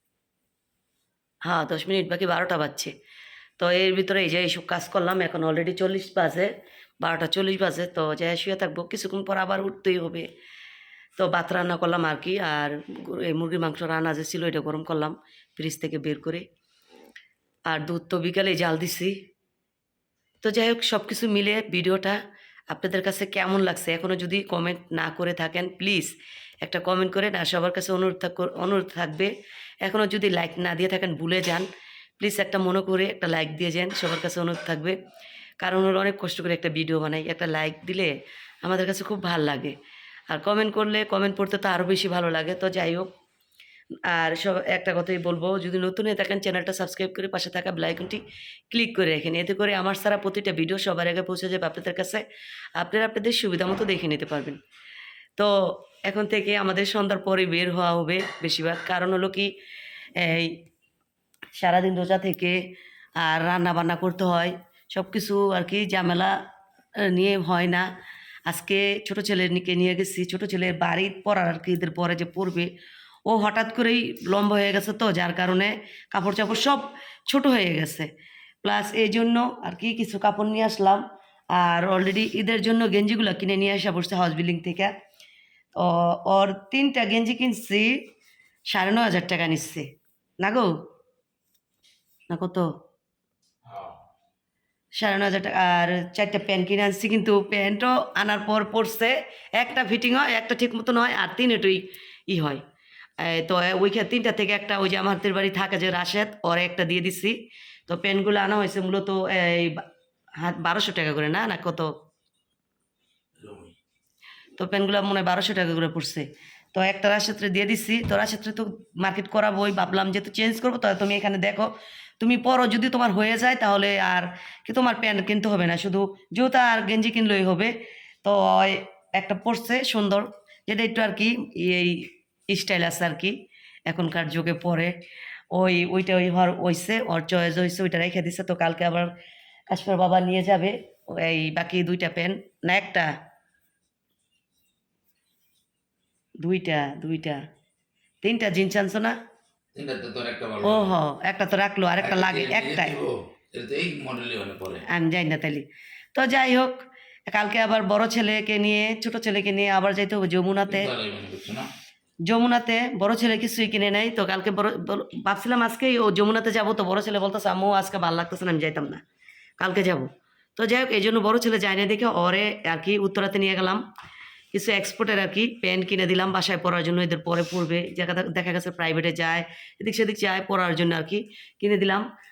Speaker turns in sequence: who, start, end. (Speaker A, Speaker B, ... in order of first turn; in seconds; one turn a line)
Speaker A: 1.4-2.9
Speaker A: 3.6-10.3
Speaker A: 11.2-16.4
Speaker A: 17.7-19.1
Speaker A: 20.4-22.2
Speaker A: 22.7-26.1
Speaker A: 26.6-29.3
Speaker A: 29.8-31.7
Speaker A: 32.2-34.9
Speaker A: 35.6-39.8
Speaker A: 40.3-43.1
Speaker A: 44.1-52.2
Speaker A: 52.8-54.6
Speaker A: 55.4-59.5
Speaker A: 60.2-60.6
Speaker A: 61.5-62.6
Speaker A: 63.2-66.3
Speaker A: 67.0-67.9
Speaker A: 68.5-72.7
Speaker A: 73.3-78.1
Speaker A: 78.6-81.0
Speaker A: 81.5-84.9
Speaker A: 85.7-88.0
Speaker A: 88.7-89.9
Speaker A: 90.4-90.7
Speaker A: 92.3-92.7
Speaker B: 93.7-94.0
Speaker A: 95.0-102.6
Speaker A: 103.2-107.3
Speaker A: 107.9-109.8
Speaker A: 110.4-111.9
Speaker B: 113.4-113.8
Speaker A: 114.6-121.7
Speaker A: 122.2-127.7
Speaker A: 128.2-133.3
Speaker A: 133.9-134.9
Speaker A: 135.5-139.1
Speaker A: 139.7-143.1
Speaker A: 146.4-147.4
Speaker A: 148.2-149.2
Speaker B: 149.7-150.9
Speaker A: 150.6-152.9
Speaker B: 152.0-154.8
Speaker A: 154.9-156.8
Speaker A: 157.3-160.9
Speaker B: 160.7-161.7
Speaker A: 162.3-169.0
Speaker A: 169.6-173.8
Speaker A: 174.5-182.0